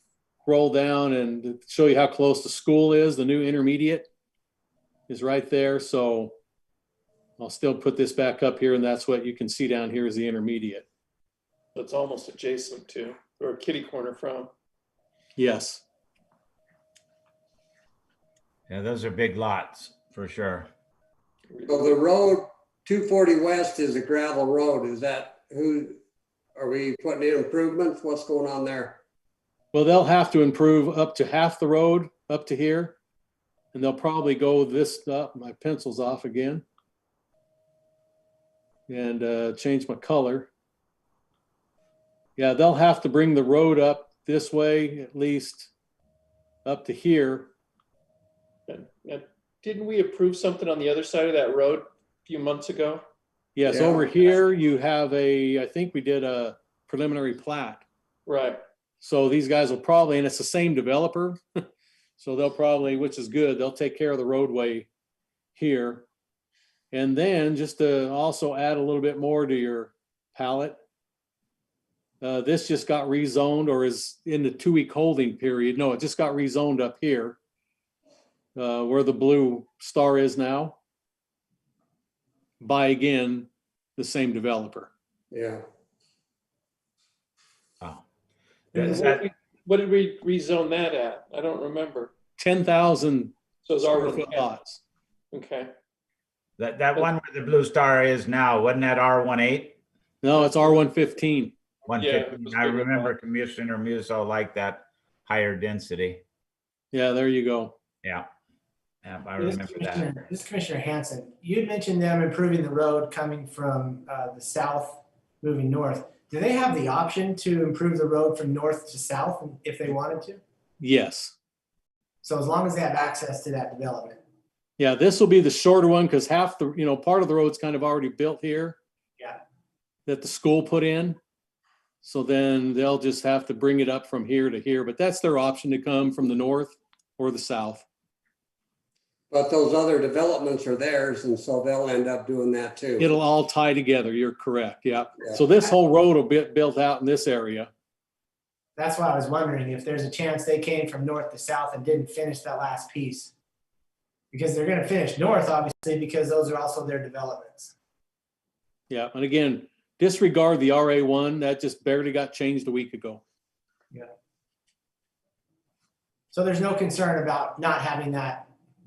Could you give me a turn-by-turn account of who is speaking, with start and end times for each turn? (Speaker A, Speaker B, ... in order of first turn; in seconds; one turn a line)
Speaker A: 0.4-4.1
Speaker A: 5.1-6.3
Speaker A: 7.4-10.8
Speaker B: 11.8-14.5
Speaker A: 15.3-15.8
Speaker C: 18.7-20.7
Speaker B: 21.5-22.0
Speaker D: 21.7-26.0
Speaker D: 26.6-29.0
Speaker A: 29.7-33.0
Speaker A: 33.7-36.6
Speaker A: 38.9-40.5
Speaker A: 42.4-45.7
Speaker A: 46.6-47.5
Speaker B: 48.7-53.0
Speaker A: 53.5-57.8
Speaker D: 53.6-54.1
Speaker B: 58.2-58.6
Speaker A: 59.0-61.6
Speaker A: 62.2-64.9
Speaker A: 65.5-66.0
Speaker A: 66.9-70.8
Speaker A: 72.2-77.4
Speaker A: 78.5-80.8
Speaker A: 82.6-84.9
Speaker D: 85.3-85.6
Speaker C: 88.7-89.2
Speaker B: 88.7-92.1
Speaker A: 92.4-94.8
Speaker B: 93.6-94.5
Speaker B: 95.3-95.7
Speaker C: 96.6-99.8
Speaker A: 100.2-101.5
Speaker B: 100.3-100.8
Speaker C: 101.9-106.2
Speaker B: 102.0-103.1
Speaker A: 106.9-107.7
Speaker C: 109.0-110.2
Speaker E: 109.4-120.4
Speaker A: 120.8-121.3
Speaker E: 122.2-124.2
Speaker A: 124.8-128.8
Speaker A: 130.1-131.2
Speaker A: 132.0-137.8
Speaker D: 139.3-143.1
Speaker A: 143.0-147.7
Speaker E: 148.8-153.3
Speaker E: 154.3-157.7
Speaker A: 158.9-163.2
Speaker E: 166.3-168.5